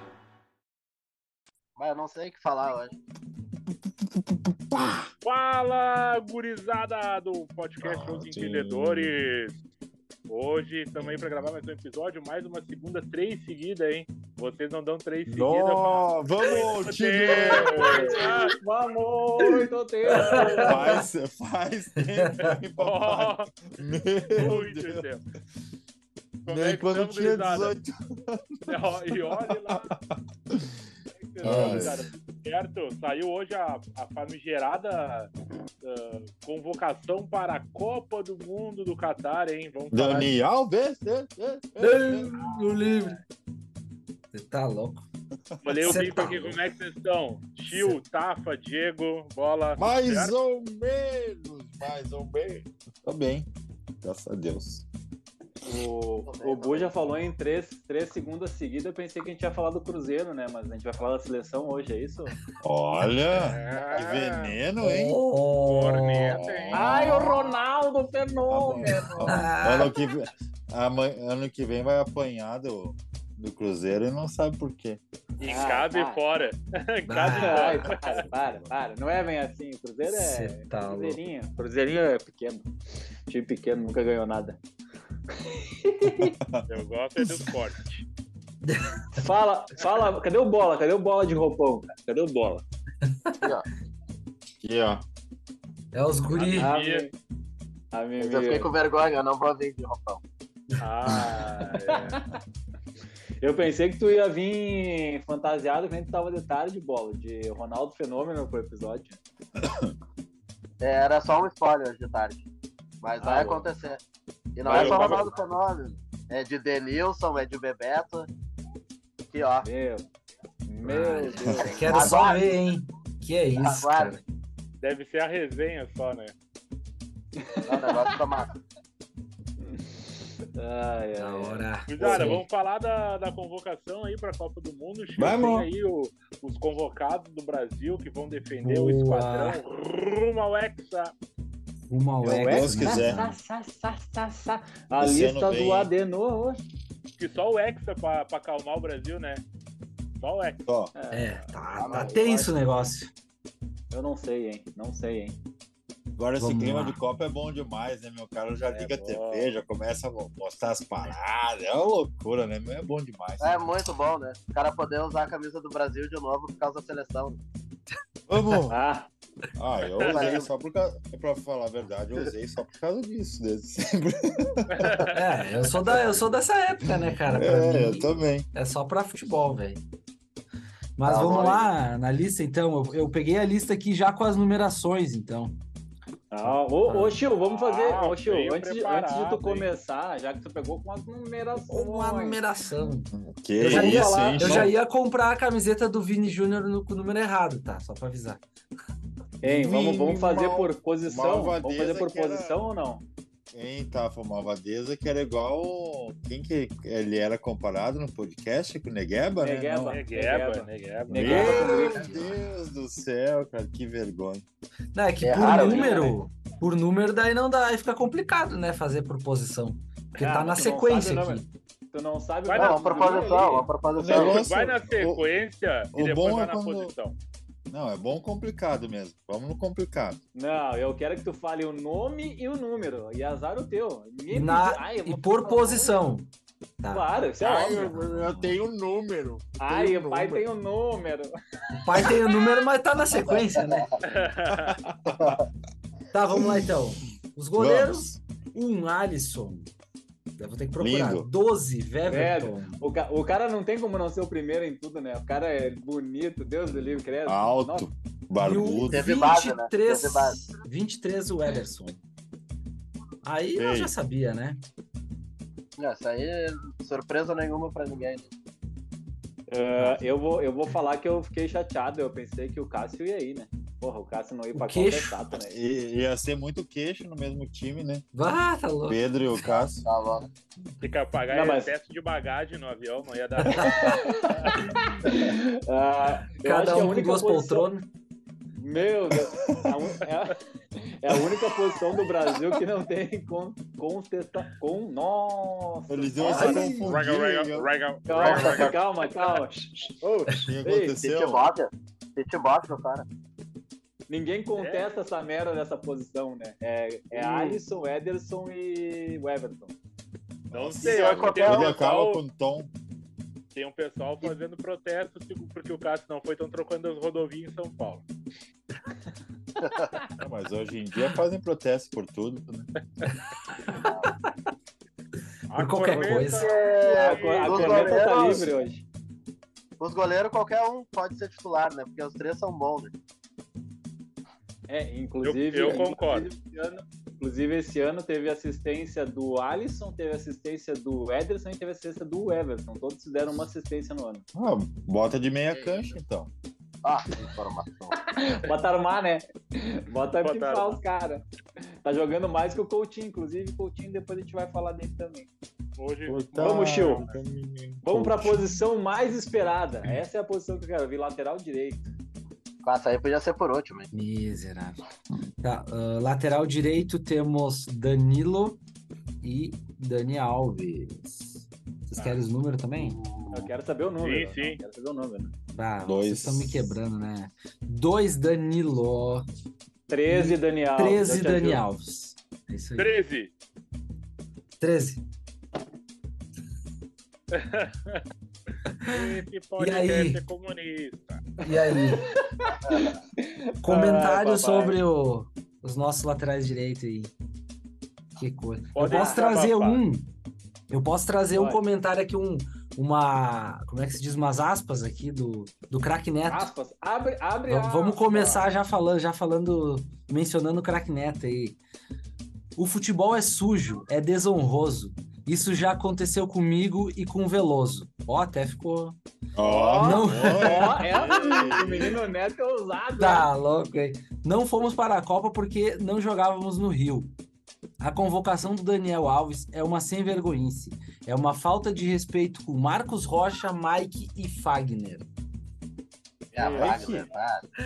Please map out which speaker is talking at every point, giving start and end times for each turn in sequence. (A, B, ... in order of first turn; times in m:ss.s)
0:01.8-0:02.9 A
0:04.0-0:05.1 B
0:05.2-0:09.6 C
0:07.8-0:09.1 B
0:10.3-0:18.6 C
0:15.2-0:18.1 B
0:17.3-0:21.0 D
0:20.1-0:20.7 E
0:20.6-0:25.0 B
0:22.0-0:22.5 E
0:22.8-0:23.5 C
0:24.3-0:25.2 C
0:26.4-0:27.7 C
0:26.5-0:30.8 B
0:28.7-0:29.9 C
0:31.1-0:35.3 C
0:31.4-0:32.0 E
0:31.4-0:32.1 B
0:35.8-0:40.3 C
0:39.9-0:42.4 B
0:41.8-0:43.2 E
0:42.4-0:43.1 C
0:44.3-0:45.0 E
0:45.5-0:46.1 B
0:45.6-0:50.3 C
0:45.8-0:46.6 E
0:47.7-0:48.0 E
0:49.8-0:53.5 B
0:54.0-0:54.8 B
0:55.6-1:02.3 D
0:56.3-0:56.9 A
1:02.6-1:05.2 B
1:03.3-1:04.6 C
1:04.8-1:06.4 E
1:05.6-1:06.9 C
1:06.3-1:07.3 B
1:06.7-1:09.4 D
1:08.5-1:15.0 B
1:09.2-1:09.9 E
1:15.4-1:18.2 C
1:15.4-1:16.2 D
1:17.0-1:17.9 E
1:17.3-1:22.7 D
1:18.1-1:18.7 B
1:20.1-1:21.2 E
1:23.3-1:24.6 D
1:25.3-1:26.4 D
1:26.4-1:26.6 B
1:26.7-1:28.0 C
1:28.6-1:29.2 E
1:29.1-1:32.6 D
1:33.1-1:33.4 E
1:34.6-1:35.0 B
1:35.9-1:36.7 E
1:36.3-1:37.1 C
1:36.5-1:37.1 D
1:37.9-1:38.7 D
1:38.2-1:40.2 A
1:40.8-1:42.2 C
1:41.7-1:42.4 D
1:43.4-1:49.2 D
1:50.8-1:52.4 A
1:53.0-1:54.0 A
1:53.2-1:53.7 D
1:54.6-1:58.3 A
1:54.6-1:55.3 C
1:54.7-1:55.2 B
1:54.8-1:55.0 D
1:59.3-1:59.7 A
1:59.6-2:00.1 D
2:00.7-2:02.0 D
2:00.8-2:04.2 E
2:01.4-2:02.2 B
2:01.5-2:02.5 A
2:03.6-2:04.2 A
2:04.8-2:06.3 C
2:07.4-2:08.2 D
2:07.6-2:08.5 A
2:10.5-2:11.6 D
2:11.2-2:12.4 E
2:11.9-2:21.1 C
2:12.0-2:12.3 A
2:15.2-2:15.7 B
2:18.6-2:19.6 E
2:21.9-2:23.4 E
2:22.2-2:23.2 B
2:22.4-2:26.6 D
2:25.0-2:25.9 B
2:27.2-2:29.4 C
2:30.2-2:30.6 C
2:30.6-2:30.9 B
2:30.9-2:32.6 D
2:31.1-2:33.1 E
2:31.8-2:32.2 A
2:33.9-2:35.4 D
2:36.2-2:43.7 B
2:36.4-2:37.0 E
2:38.7-2:39.5 C
2:43.4-2:47.4 A
2:48.3-2:48.8 B
2:48.7-2:49.1 D
2:49.6-2:55.0 B
2:50.0-2:50.4 C
2:50.0-2:50.5 A
2:54.7-2:55.2 C
2:55.1-2:59.8 E
2:56.8-2:58.5 B
3:01.0-3:05.6 E
3:01.0-3:01.7 A
3:06.3-3:12.4 D
3:06.4-3:07.2 E
3:07.4-3:09.7 C
3:11.7-3:18.4 E
3:13.1-3:14.7 B
3:13.6-3:14.7 D
3:19.4-3:23.0 D
3:19.4-3:22.5 B
3:23.5-3:30.0 B
3:29.4-3:32.1 D
3:29.9-3:31.8 C
3:31.1-3:34.4 B
3:31.2-3:32.3 E
3:34.9-3:41.5 E
3:35.2-3:36.1 A
3:35.4-3:36.2 D
3:40.2-3:43.7 D
3:42.5-3:43.3 C
3:42.5-3:44.4 A
3:44.0-3:45.2 B
3:44.1-3:47.2 C
3:45.9-3:46.9 B
3:47.7-3:50.2 B
3:50.3-3:56.0 D
3:54.3-3:56.3 E
3:56.8-3:57.1 E
3:56.9-3:57.9 D
3:57.4-4:00.4 B
3:57.6-3:58.6 E
3:59.6-4:02.2 D
4:01.8-4:03.9 E
4:03.4-4:03.8 A
4:04.0-4:04.8 C
4:04.6-4:05.4 B
4:06.1-4:09.7 E
4:06.3-4:06.7 B
4:07.6-4:08.2 B
4:10.4-4:12.8 E
4:10.8-4:11.3 B
4:12.0-4:17.9 D
4:17.2-4:19.1 B
4:18.4-4:22.0 E
4:18.8-4:20.5 A
4:23.2-4:24.6 E
4:23.5-4:23.9 B
4:25.8-4:28.3 A
4:29.5-4:35.6 D
4:34.5-4:35.2 E
4:35.4-4:38.0 B
4:38.1-4:39.0 E
4:38.8-4:39.8 B
4:39.7-4:40.3 A
4:40.8-4:44.6 C
4:41.3-4:41.7 D
4:43.5-4:43.9 E
4:43.6-4:47.7 D
4:46.3-4:47.9 E
4:48.6-4:56.7 D
4:49.3-4:49.7 B
4:55.9-4:57.7 B
4:56.2-4:59.4 C
4:58.0-5:00.9 D
4:58.2-4:58.7 A
5:00.3-5:01.4 B
5:01.0-5:03.0 A
5:04.1-5:09.7 D
5:04.6-5:04.9 C
5:07.1-5:07.6 C
5:10.5-5:12.7 B
5:10.5-5:12.2 C
5:10.8-5:11.7 A
5:13.5-5:18.0 C
5:19.6-5:19.9 A
5:20.2-5:22.7 B
5:23.7-5:24.3 E
5:23.7-5:24.1 A
5:25.5-5:28.4 C
5:25.5-5:26.5 E
5:26.3-5:28.5 A
5:26.9-5:28.8 D
5:29.8-5:32.9 A
5:34.7-5:44.2 D
5:35.2-5:36.3 C
5:44.3-5:46.3 B
5:45.5-5:45.9 A
5:46.8-5:48.0 A
5:47.9-5:51.2 D
5:50.2-5:50.8 C
5:51.8-5:55.3 D
5:55.8-5:57.2 C
5:56.0-5:58.5 B
5:56.4-5:57.1 D
5:57.8-6:01.9 D
6:02.6-6:03.9 A
6:03.9-6:04.8 E
6:05.4-6:08.6 E
6:09.2-6:13.0 E
6:12.0-6:12.2 C
6:12.8-6:13.5 A
6:13.3-6:15.3 D
6:14.0-6:14.6 C
6:15.5-6:19.2 E
6:15.8-6:16.8 B
6:19.9-6:21.6 D
6:20.1-6:23.0 E
6:22.8-6:23.3 C
6:24.6-6:25.0 E
6:27.3-6:28.0 C
6:28.7-6:30.2 E
6:28.8-6:31.3 C
6:31.4-6:32.1 E
6:31.5-6:34.8 D
6:33.6-6:37.1 E
6:38.2-6:40.1 E
6:38.7-6:39.8 C
6:38.8-6:39.3 D
6:40.7-6:46.5 E
6:41.3-6:41.6 D
6:46.3-6:48.4 D
6:47.5-6:51.6 E
6:52.6-6:59.0 E
6:59.3-7:02.0 B
6:59.4-7:03.3 D
6:59.8-7:01.1 E
7:03.0-7:07.1 E
7:07.8-7:15.0 E
7:16.3-7:17.4 A
7:16.4-7:16.9 C
7:16.4-7:17.1 B